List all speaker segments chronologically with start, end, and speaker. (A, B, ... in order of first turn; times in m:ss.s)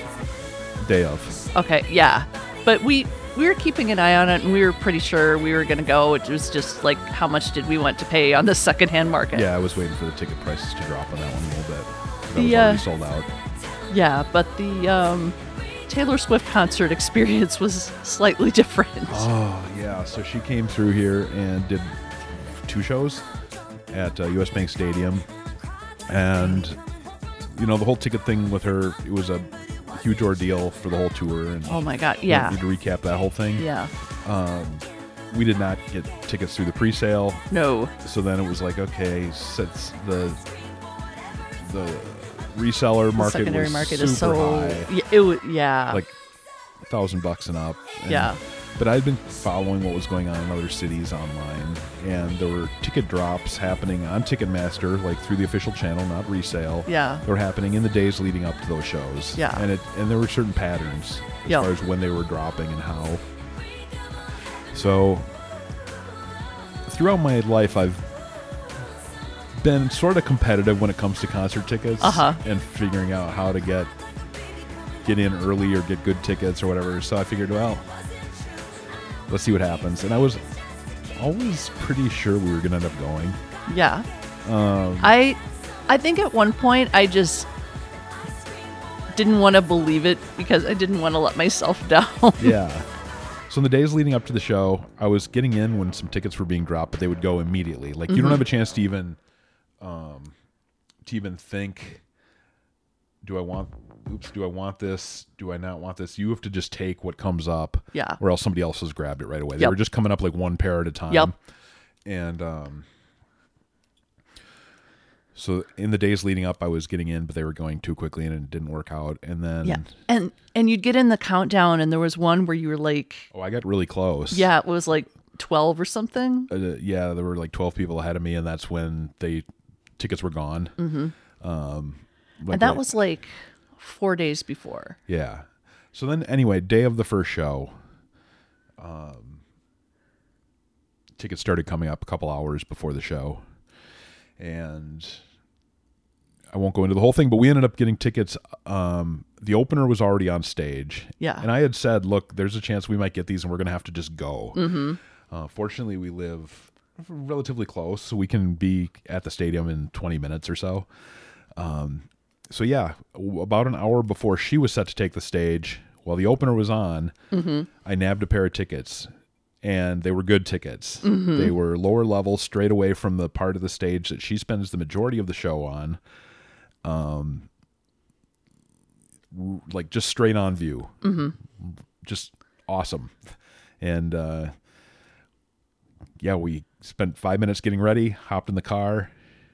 0:00.8-0:01.4 A
0:01.5-0:09.5 B
0:09.3-0:13.3 A
0:12.4-0:12.8 B
0:13.9-0:19.3 B
0:19.1-0:22.0 A
0:22.5-0:23.3 A
0:23.9-0:25.3 A
0:26.1-0:26.8 A
0:27.5-0:33.7 A
0:31.7-0:32.6 B
0:33.6-0:33.9 B
0:34.2-0:37.4 A
0:37.5-0:37.9 B
0:38.0-0:40.4 A
0:41.6-0:44.9 A
0:43.2-0:46.0 B
0:45.9-0:46.2 A
0:46.8-1:03.2 A
0:48.1-0:48.4 B
0:56.9-0:57.2 B
0:59.4-0:59.6 B
1:04.7-1:05.3 A
1:06.9-1:08.1 A
1:09.6-1:13.9 A
1:12.0-1:12.4 B
1:15.0-1:17.9 A
1:19.3-1:20.4 A
1:21.2-1:23.4 A
1:23.7-1:24.1 B
1:24.4-1:25.2 A
1:25.0-1:27.5 B
1:29.1-1:32.6 B
1:32.4-1:32.9 A
1:33.5-1:39.2 A
1:38.1-1:38.4 B
1:39.8-1:40.4 A
1:41.0-1:42.0 A
1:43.2-1:51.4 A
1:47.9-1:48.2 B
1:52.0-1:52.9 A
1:55.4-1:59.9 A
1:59.6-2:03.3 B
2:03.3-2:04.5 A
2:04.3-2:06.5 B
2:06.5-2:09.5 A
2:10.0-2:10.8 A
2:10.8-2:11.1 B
2:11.4-2:12.9 A
2:12.5-2:15.0 B
2:15.1-2:17.8 A
2:18.8-2:19.4 A
2:21.2-2:23.5 A
2:24.4-2:25.2 A
2:26.5-2:40.9 A
2:31.2-2:31.5 B
2:34.5-2:35.0 B
2:41.5-2:47.2 A
2:47.3-2:47.7 B
2:47.8-2:49.1 A
2:49.6-2:56.0 A
2:51.0-2:51.5 B
2:56.8-2:57.5 A
2:59.3-3:04.5 A
3:01.0-3:01.4 B
3:06.2-3:09.1 A